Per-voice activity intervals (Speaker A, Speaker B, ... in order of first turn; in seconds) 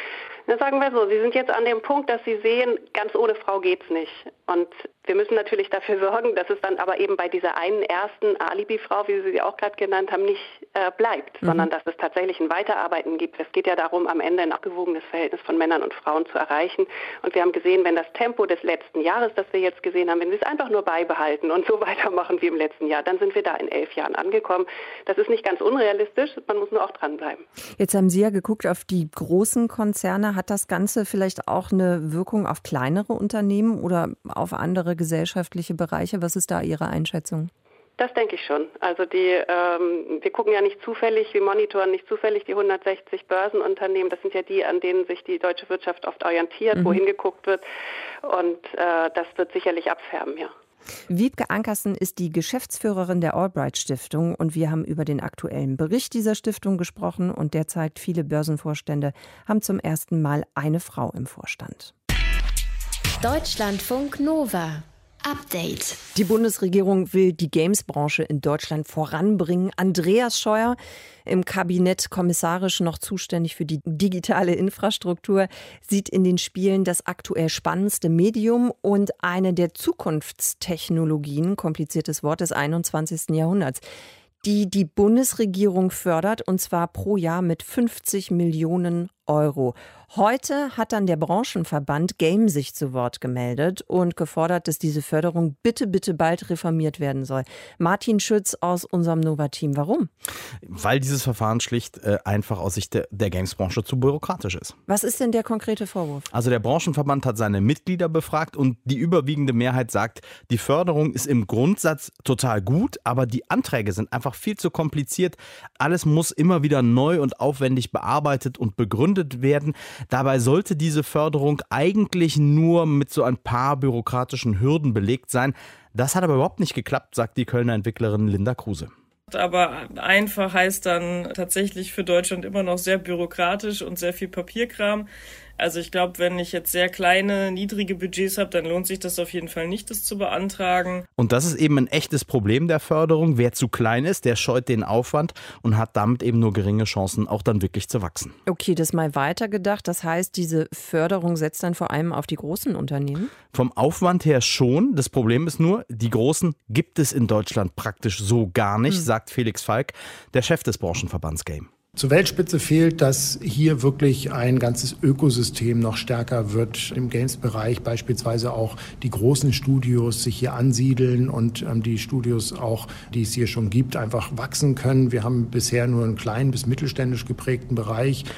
Speaker A: 0.5-27.4, 38.0-47.6, 48.2-50.5
Speaker B: 27.8-37.5, 46.7-47.0, 51.1-61.9, 66.1-83.8, 84.4-100.1, 104.9-106.3, 148.5-153.3
Speaker C: 63.2-66.0
Speaker D: 100.6-104.8, 106.3-128.9, 141.2-148.3, 153.5-161.7
Speaker E: 129.3-135.1, 135.6-141.0
Speaker F: 162.0-178.3